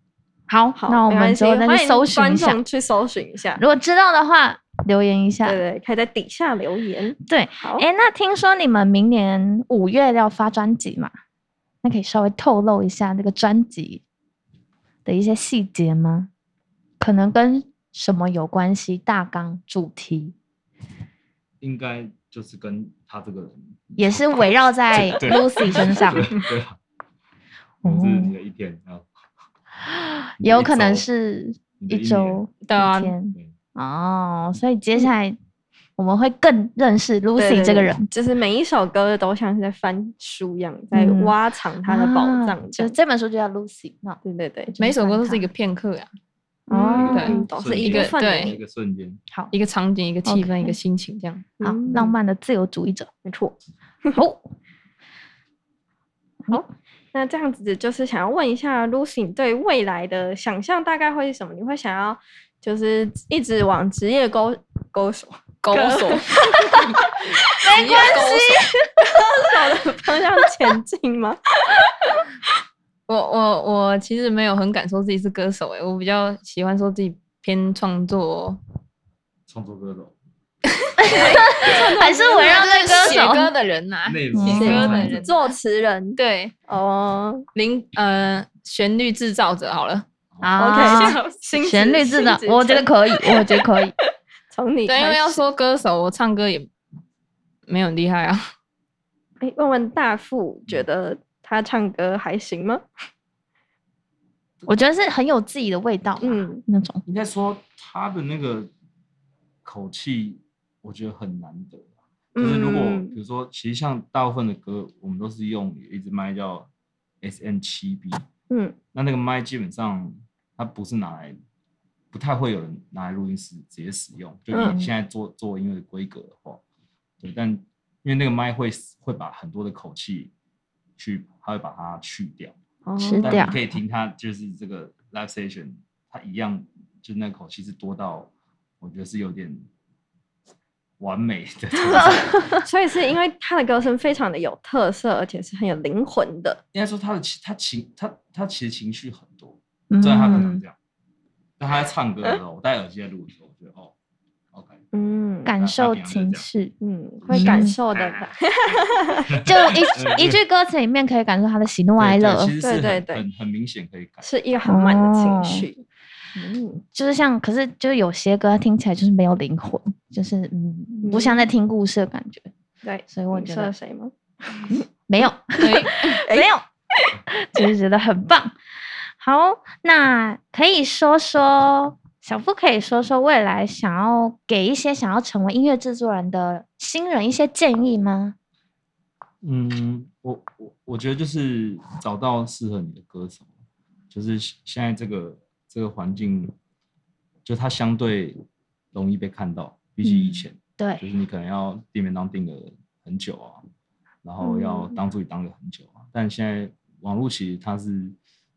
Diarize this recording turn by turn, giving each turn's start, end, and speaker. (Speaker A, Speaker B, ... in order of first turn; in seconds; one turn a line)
Speaker A: 0.5-2.6
Speaker B: 0.8-3.6
Speaker A: 3.6-5.6
Speaker B: 5.5-7.9
Speaker A: 7.3-11.1
Speaker A: 11.8-14.0
Speaker A: 15.1-16.3
Speaker A: 17.0-20.3
Speaker C: 21.6-26.8
Speaker A: 24.0-26.3
Speaker A: 27.8-28.4
Speaker C: 27.8-29.1
Speaker A: 29.9-35.4
Speaker C: 30.4-31.1
Speaker C: 31.8-32.4
Speaker D: 32.6-33.1
Speaker A: 36.0-38.1
Speaker B: 37.4-42.9
Speaker A: 40.9-41.4
Speaker A: 41.9-45.5
Speaker B: 44.2-44.8
Speaker D: 44.8-46.1
Speaker A: 46.7-47.5
Speaker B: 46.7-48.6
Speaker C: 47.0-49.2
Speaker D: 47.1-48.5
Speaker D: 49.5-51.5
Speaker A: 50.3-50.8
Speaker B: 51.6-52.2
Speaker A: 51.6-53.1
Speaker B: 53.2-53.5
Speaker A: 54.1-54.5
Speaker B: 56.5-67.1
Speaker D: 65.6-67.0
Speaker A: 67.5-68.8
Speaker B: 67.7-71.4
Speaker D: 67.7-68.6
Speaker D: 73.1-78.6
Speaker C: 79.5-80.2
Speaker A: 81.0-83.5
Speaker D: 81.0-81.8
Speaker B: 81.0-83.3
Speaker D: 82.4-85.4
Speaker C: 84.0-85.3
Speaker A: 84.3-85.0
Speaker B: 84.6-87.5
Speaker D: 86.2-86.5
Speaker D: 87.5-90.1
Speaker A: 90.4-93.9
Speaker B: 90.6-93.5
Speaker D: 90.8-91.3
Speaker B: 94.5-95.4
Speaker D: 94.9-96.7
Speaker D: 97.7-98.4
Speaker B: 99.4-102.8
Speaker A: 104.7-107.0
Speaker B: 106.2-106.6
Speaker C: 107.1-108.7
Speaker C: 109.7-116.7
Speaker B: 112.4-113.2
Speaker C: 117.2-118.2
Speaker B: 118.5-118.8
Speaker C: 118.9-121.4
Speaker C: 122.1-126.6
Speaker B: 124.5-124.8
Speaker A: 124.6-124.9
Speaker C: 127.2-130.3
Speaker C: 131.0-132.5
Speaker B: 132.9-133.5
Speaker A: 133.0-133.6
Speaker C: 133.2-138.3
Speaker C: 138.8-139.7
Speaker C: 141.0-142.5
Speaker B: 141.9-146.6
Speaker A: 141.9-142.6
Speaker C: 146.7-150.8
Speaker A: 149.9-150.6
Speaker C: 151.6-153.9
Speaker C: 154.5-154.8
Speaker B: 154.9-155.5
Speaker A: 155.4-156.7
Speaker C: 155.6-156.5
Speaker B: 156.8-159.3
Speaker C: 157.2-160.4
Speaker A: 157.3-157.8
Speaker A: 159.4-162.5
Speaker C: 162.0-164.3
Speaker B: 162.6-163.2
Speaker B: 164.2-165.8
Speaker A: 164.7-165.7
Speaker B: 166.4-166.8
Speaker A: 166.8-172.5
Speaker B: 171.0-171.4
Speaker B: 172.8-174.8
Speaker A: 173.1-173.7
Speaker A: 174.7-176.6
Speaker D: 175.6-176.2
Speaker B: 176.0-177.1
Speaker A: 177.3-178.6
Speaker A: 179.2-188.3
Speaker C: 189.4-193.5
Speaker C: 194.1-196.5
Speaker C: 197.4-198.4
Speaker C: 198.9-203.6
Speaker A: 200.0-201.0
Speaker C: 204.2-208.2
Speaker A: 204.4-204.9